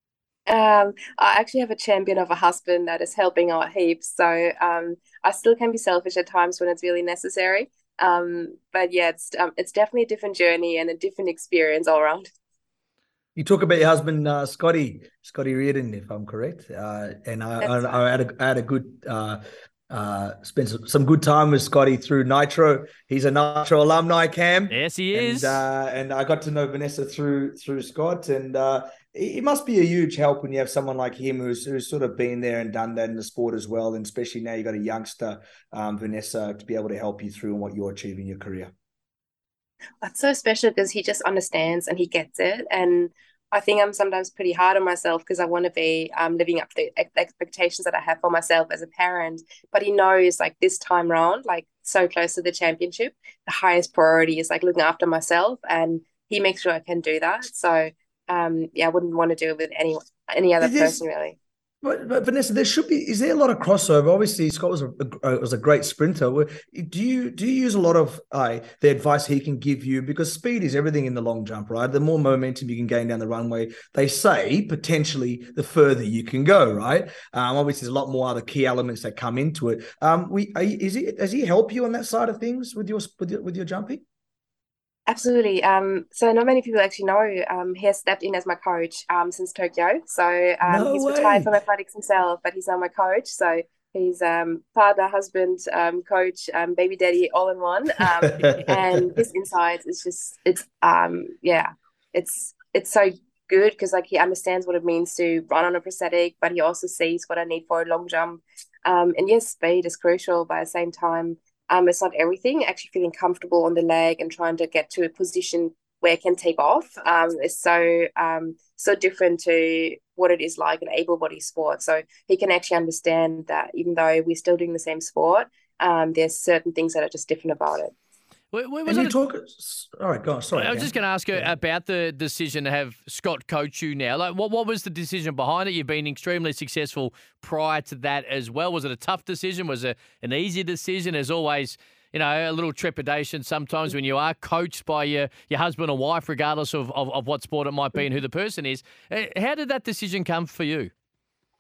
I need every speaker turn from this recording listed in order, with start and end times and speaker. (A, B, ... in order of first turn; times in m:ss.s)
0:00.5-0:12.3 A
0:13.4-0:38.7 B
0:17.6-0:18.0 A
0:24.7-0:25.6 C
0:40.0-1:01.4 A
1:00.6-1:01.0 B
1:01.8-1:24.0 B
1:25.1-2:07.9 A
1:30.6-1:31.5 B
2:08.5-2:09.2 C
2:08.9-2:11.5 B
2:10.6-2:30.9 C